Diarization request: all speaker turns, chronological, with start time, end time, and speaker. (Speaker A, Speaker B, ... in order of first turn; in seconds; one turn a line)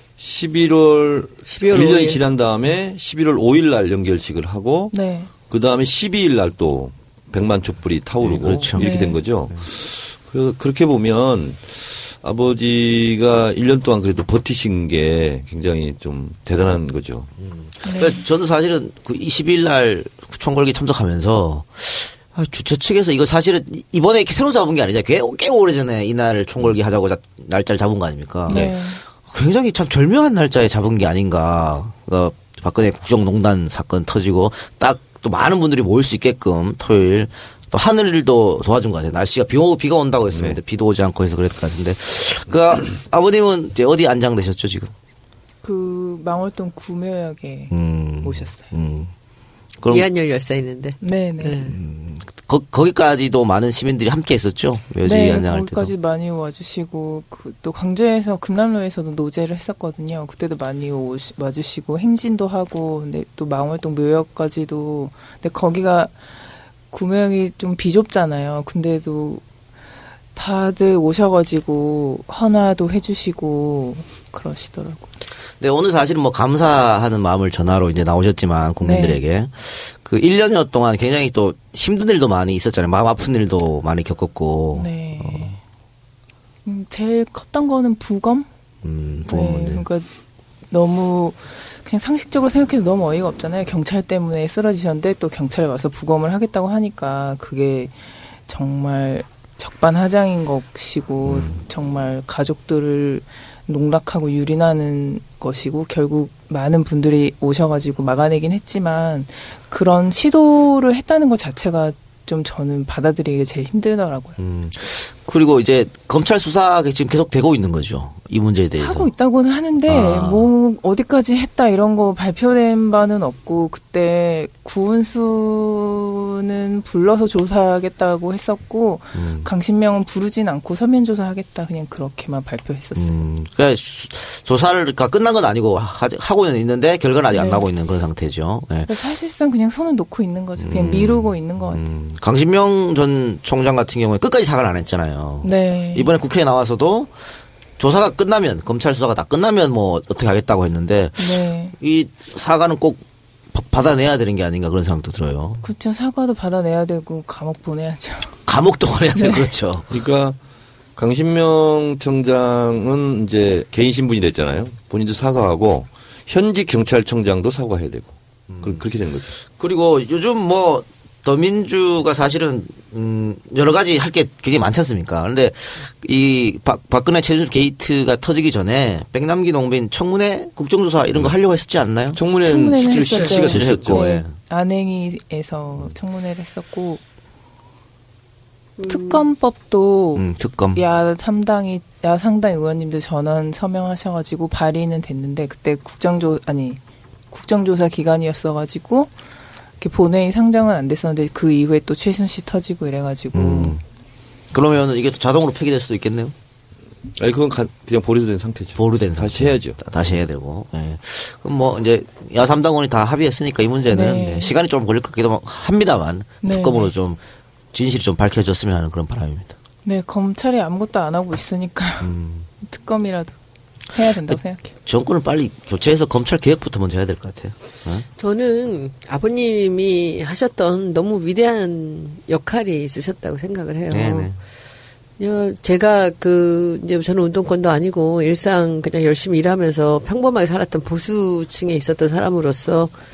Speaker A: 0.2-4.9
Speaker B: 1.5-2.2
Speaker C: 4.9-5.3
Speaker A: 5.5-17.3
Speaker D: 8.2-9.6
Speaker C: 8.8-9.2
Speaker D: 17.4-44.9
Speaker C: 17.8-18.2
Speaker C: 28.5-29.0
Speaker A: 40.3-40.6
Speaker C: 45.6-48.7
Speaker D: 47.7-49.1
Speaker D: 49.8-50.1
Speaker B: 49.9-51.8
Speaker C: 51.0-51.6
Speaker D: 51.6-55.9
Speaker C: 55.0-66.2
Speaker C: 66.9-69.4
Speaker C: 70.3-75.1
Speaker D: 75.6-85.5
Speaker C: 78.8-79.2
Speaker C: 84.8-85.6
Speaker C: 86.7-88.5
Speaker D: 88.8-89.8
Speaker C: 89.3-90.1
Speaker C: 90.7-98.0
Speaker C: 98.5-114.4
Speaker D: 101.2-101.6
Speaker D: 114.4-119.1
Speaker C: 118.8-133.2
Speaker D: 119.9-120.5
Speaker D: 129.2-129.5
Speaker D: 133.0-138.9
Speaker C: 137.3-137.7
Speaker C: 138.9-141.8
Speaker D: 140.6-147.1
Speaker C: 145.4-146.1
Speaker D: 147.8-153.0
Speaker C: 151.2-151.7
Speaker D: 153.5-155.6
Speaker C: 155.6-158.4
Speaker D: 158.5-159.9
Speaker C: 159.2-159.5
Speaker A: 159.9-160.4
Speaker A: 161.0-169.3
Speaker D: 168.5-168.8
Speaker D: 169.6-182.2
Speaker A: 182.1-184.0
Speaker C: 182.4-187.0
Speaker D: 183.1-184.3
Speaker B: 188.8-189.2
Speaker C: 188.8-196.8
Speaker D: 190.2-190.8
Speaker C: 197.3-199.1
Speaker C: 199.8-203.8
Speaker D: 203.3-203.8
Speaker D: 204.5-206.3
Speaker A: 207.2-210.1
Speaker D: 208.8-217.2
Speaker C: 213.9-214.6
Speaker C: 216.4-216.9
Speaker D: 217.7-219.5
Speaker C: 219.8-222.1
Speaker D: 222.0-222.5
Speaker C: 222.6-223.4
Speaker C: 223.9-224.7
Speaker D: 224.3-228.1
Speaker B: 228.2-234.3
Speaker D: 233.9-234.4
Speaker B: 235.2-242.9